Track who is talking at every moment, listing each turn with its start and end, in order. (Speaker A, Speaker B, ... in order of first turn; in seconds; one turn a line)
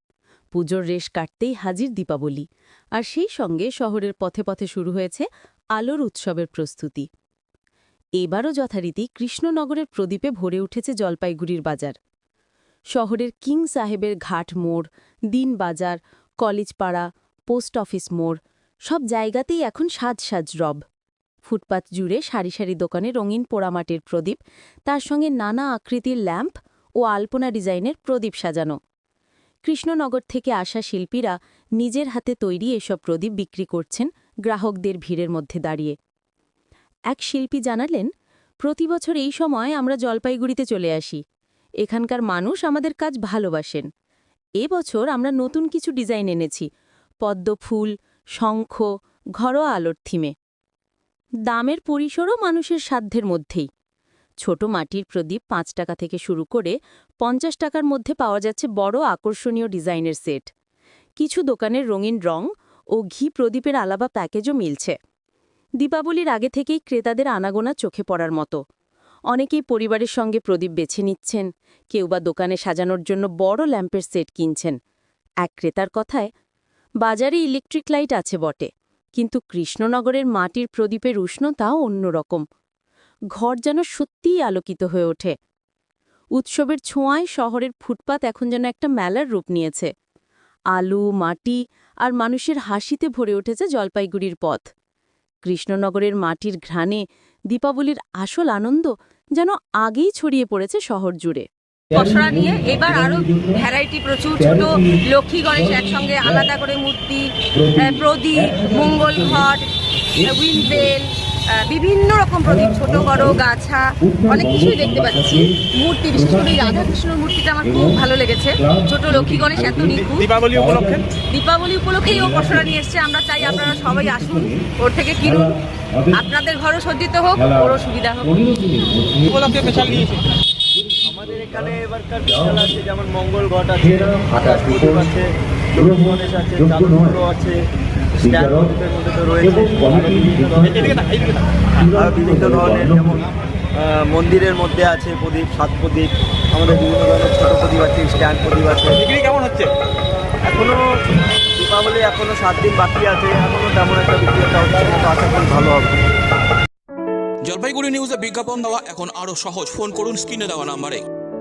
Speaker A: 0.5-2.4
Speaker A: 3.0-7.1
Speaker A: 8.2-11.9
Speaker A: 12.9-20.8
Speaker A: 21.5-28.8
Speaker A: 29.6-36.0
Speaker A: 37.1-38.1
Speaker A: 38.6-41.2
Speaker A: 41.8-43.9
Speaker A: 44.6-46.7
Speaker A: 47.2-48.9
Speaker A: 49.4-50.3
Speaker A: 51.5-53.7
Speaker A: 54.4-60.5
Speaker A: 61.2-65.0
Speaker A: 65.8-68.6
Speaker A: 69.3-74.8
Speaker A: 75.4-76.3
Speaker A: 77.0-82.4
Speaker A: 83.3-85.3
Speaker A: 86.4-89.9
Speaker A: 90.7-94.7
Speaker A: 95.4-101.5
Speaker B: 101.9-103.7
Speaker C: 101.9-109.7
Speaker B: 104.4-105.0
Speaker B: 105.5-106.5
Speaker B: 107.5-109.5
Speaker B: 110.2-110.9
Speaker C: 110.2-120.4
Speaker B: 112.4-113.4
Speaker B: 114.0-115.6
Speaker B: 116.1-117.0
Speaker B: 117.6-118.0
Speaker B: 118.6-121.0
Speaker D: 120.5-120.8
Speaker C: 121.3-125.6
Speaker B: 122.1-122.8
Speaker B: 123.4-124.7
Speaker B: 125.2-126.2
Speaker C: 126.1-128.4
Speaker B: 127.3-130.1
Speaker E: 131.1-137.6
Speaker B: 132.2-132.7
Speaker B: 133.8-135.1
Speaker B: 135.8-137.2
Speaker E: 138.2-141.4
Speaker B: 138.2-138.7
Speaker B: 139.4-141.0
Speaker B: 141.8-143.2
Speaker E: 141.9-149.0
Speaker D: 149.0-149.7
Speaker E: 150.4-150.8
Speaker E: 151.6-156.0
Speaker D: 157.4-161.0